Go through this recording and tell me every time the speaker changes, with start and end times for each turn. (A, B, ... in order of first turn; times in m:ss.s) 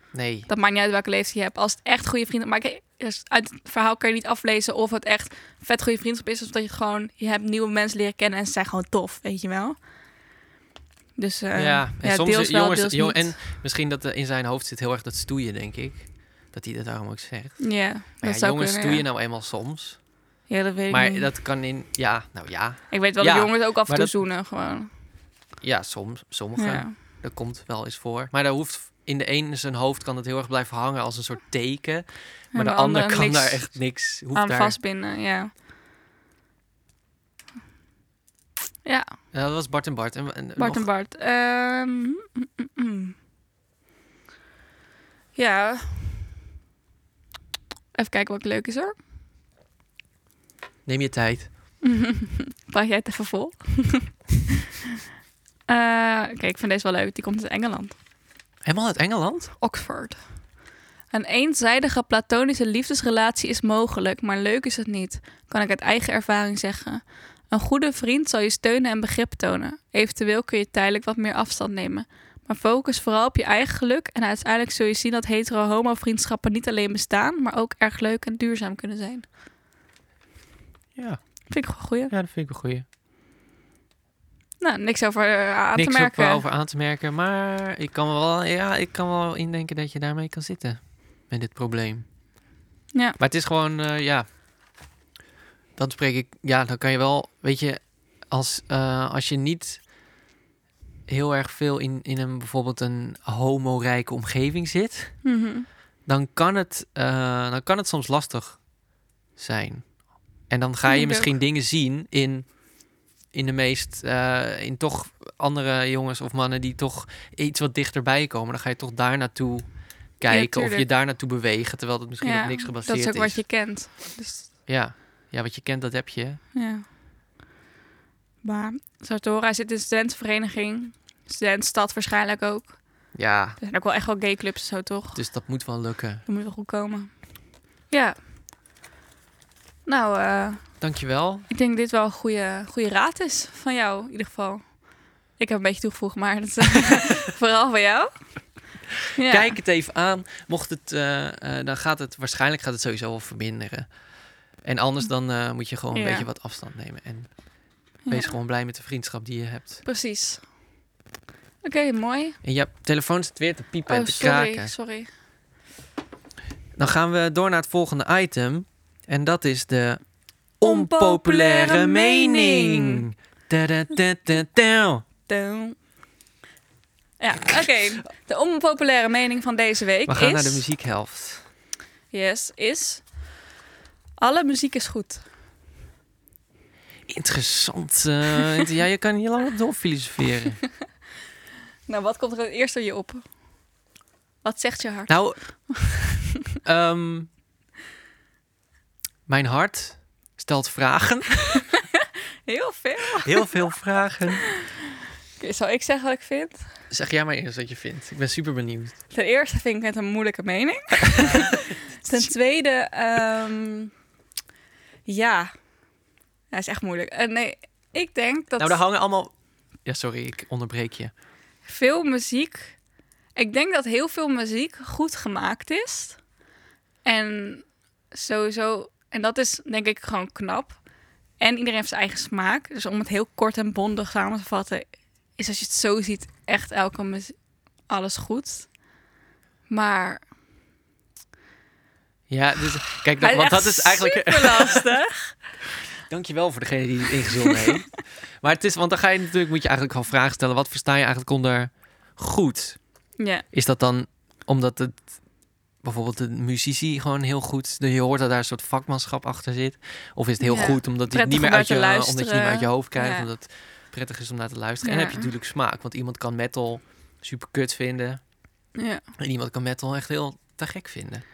0:00.1-0:00.5 A
0:00.5-0:09.8 B
0:11.2-0:13.3 B
0:11.5-0:20.0 A
0:17.6-0:19.0 B
0:20.5-0:21.3 B
0:20.9-0:24.1 A
0:22.9-0:24.9 B
0:25.6-0:34.8 A
0:26.6-0:26.9 B
0:32.5-0:35.5 B
0:39.3-0:40.9 A
0:40.6-0:43.1 B
0:45.3-0:46.2 B
0:47.9-0:48.9 B
0:50.8-0:51.5 A
0:51.8-0:54.2 B
0:55.7-0:58.0 B
0:58.6-0:59.5 A
0:59.6-1:00.4 B
1:01.1-1:19.3 B
1:20.9-1:22.8 A
1:21.5-1:22.1 B
1:24.6-1:26.4 B
1:25.7-1:32.0 A
1:32.9-1:33.2 B
1:33.2-1:34.2 A
1:35.8-1:39.9 A
1:41.1-1:45.3 A
1:45.2-1:45.6 B
1:46.0-1:48.7 A
1:49.3-2:03.5 A
1:50.9-1:51.3 B
2:00.3-2:00.8 B
2:02.2-2:04.5 B
2:04.7-2:06.4 A
2:06.5-2:06.8 B
2:08.4-2:13.1 B
2:13.1-2:13.6 A
2:13.6-2:15.3 B
2:15.1-2:16.2 A
2:16.2-2:17.3 B
2:17.9-2:18.2 B
2:19.8-2:20.8 B
2:20.8-2:21.5 A
2:21.5-2:29.6 B
2:29.2-2:34.0 A
2:34.6-2:37.4 A
2:35.9-2:36.3 B
2:38.0-2:38.3 B
2:38.1-2:39.8 A
2:39.8-2:40.4 B
2:41.6-2:42.4 B
2:42.4-2:44.7 A
2:43.9-2:45.1 B
2:46.8-2:55.0 A
2:50.6-2:53.0 B
2:55.3-2:55.8 B
2:57.2-3:00.6 B
3:00.1-3:01.4 A
3:02.1-3:03.1 B
3:04.2-3:05.2 B
3:07.1-3:10.6 A
3:11.9-3:13.3 B
3:14.4-3:15.9 B
3:15.1-3:15.8 A
3:16.6-3:17.3 A
3:19.3-3:21.6 A
3:22.5-3:23.5 B
3:23.2-3:24.5 A
3:25.4-3:26.7 B
3:26.9-3:29.0 A
3:29.1-3:33.9 B
3:31.2-3:31.4 A
3:35.0-3:35.5 B
3:36.5-3:38.8 B
3:38.6-3:41.1 A
3:41.6-3:42.8 B
3:43.3-3:46.2 B
3:47.0-3:50.8 B
3:51.4-3:58.7 B
3:59.7-4:00.2 B
4:02.3-4:04.9 A
4:03.2-4:05.4 B
4:06.1-4:12.8 A
4:13.2-4:13.4 B
4:13.5-4:15.1 A
4:15.8-4:28.2 A
4:20.4-4:23.3 B
4:24.8-4:25.3 B
4:28.8-4:29.0 B
4:29.2-4:31.2 A